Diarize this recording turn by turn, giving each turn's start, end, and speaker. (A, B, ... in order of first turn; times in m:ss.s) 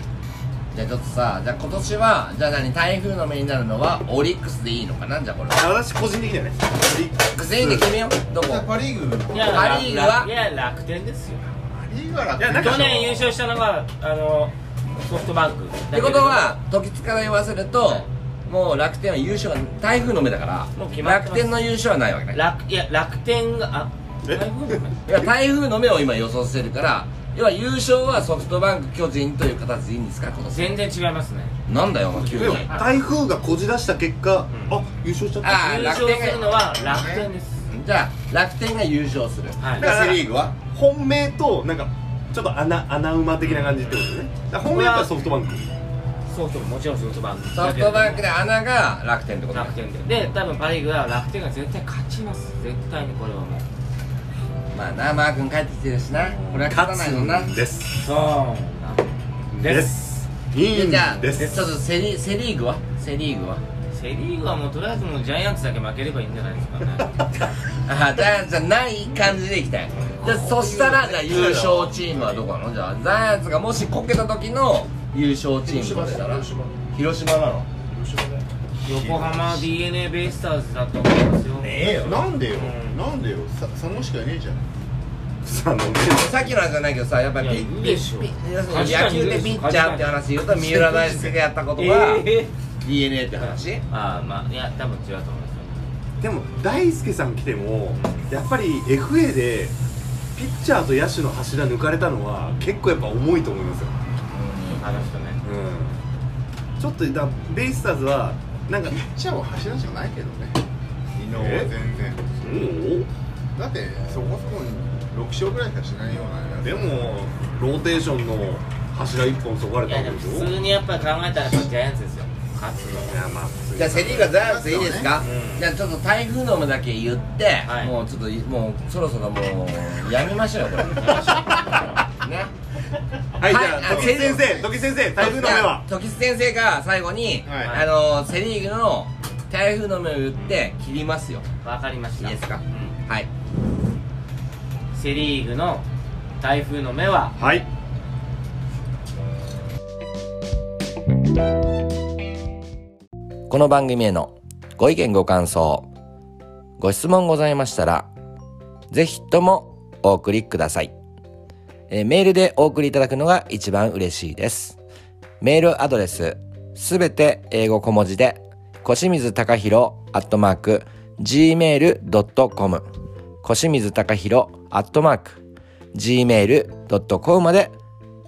0:00.7-0:05.6 A
0:05.5-0:07.9 B
0:07.3-0:08.7 A
0:08.4-0:09.6 C
0:09.3-0:11.4 D
0:09.4-0:10.3 A
0:11.7-0:12.9 C
0:12.4-0:13.3 B
0:12.5-0:16.6 D
0:15.9-0:22.4 A
0:20.8-0:21.6 D
0:22.3-0:25.0 D
0:24.2-0:24.8 B
0:25.1-0:30.7 A
0:30.4-0:31.6 D
0:31.7-0:32.7 A
0:32.2-0:32.9 D
0:32.3-0:36.4 B
0:34.5-0:34.8 D
0:35.4-0:40.5 A
0:35.6-0:37.6 D
0:39.6-0:39.9 D
0:39.8-0:45.7 B
0:43.4-0:44.0 D
0:44.6-0:45.3 D
0:46.3-0:48.2 D
0:47.5-0:50.2 A
0:49.5-0:53.6 D
0:54.7-0:57.5 A
0:56.2-0:58.1 B
0:58.0-0:59.9 D
0:59.6-1:01.6 B
1:00.7-1:03.6 A
1:03.9-1:07.3 D
1:07.8-1:17.7 A
1:10.2-1:12.4 B
1:15.6-1:16.8 E
1:17.9-1:18.5 E
1:18.8-1:23.0 D
1:18.8-1:19.6 C
1:21.6-1:22.3 E
1:22.0-1:24.7 C
1:25.4-1:26.5 B
1:26.1-1:32.3 A
1:27.4-1:32.5 D
1:32.8-1:33.8 A
1:33.4-1:35.9 D
1:36.2-1:39.7 B
1:37.9-1:38.3 D
1:40.3-1:43.9 B
1:44.3-1:44.8 A
1:44.8-1:45.4 D
1:45.4-1:46.0 B
1:46.8-1:49.0 B
1:48.9-1:50.6 C
1:51.2-1:52.3 C
1:51.3-1:51.7 B
1:52.4-1:53.1 B
1:53.6-1:57.2 C
1:56.5-2:00.5 B
1:59.8-2:03.2 D
2:03.0-2:04.4 B
2:03.8-2:11.5 A
2:04.3-2:05.1 C
2:05.2-2:05.6 D
2:07.6-2:07.9 D
2:11.0-2:11.7 D
2:12.1-2:12.5 A
2:13.4-2:15.8 B
2:13.4-2:21.4 A
2:13.9-2:14.2 C
2:17.4-2:17.7 C
2:17.6-2:17.8 D
2:21.6-2:23.0 D
2:22.2-2:23.3 A
2:24.9-2:25.8 D
2:26.4-2:27.3 D
2:27.4-2:27.7 B
2:33.5-2:35.9 A
2:36.8-2:38.1 A
2:38.9-2:40.9 A
2:41.9-2:44.8 A
2:45.4-2:52.8 A
2:53.4-2:55.4 A
2:55.9-2:57.7 A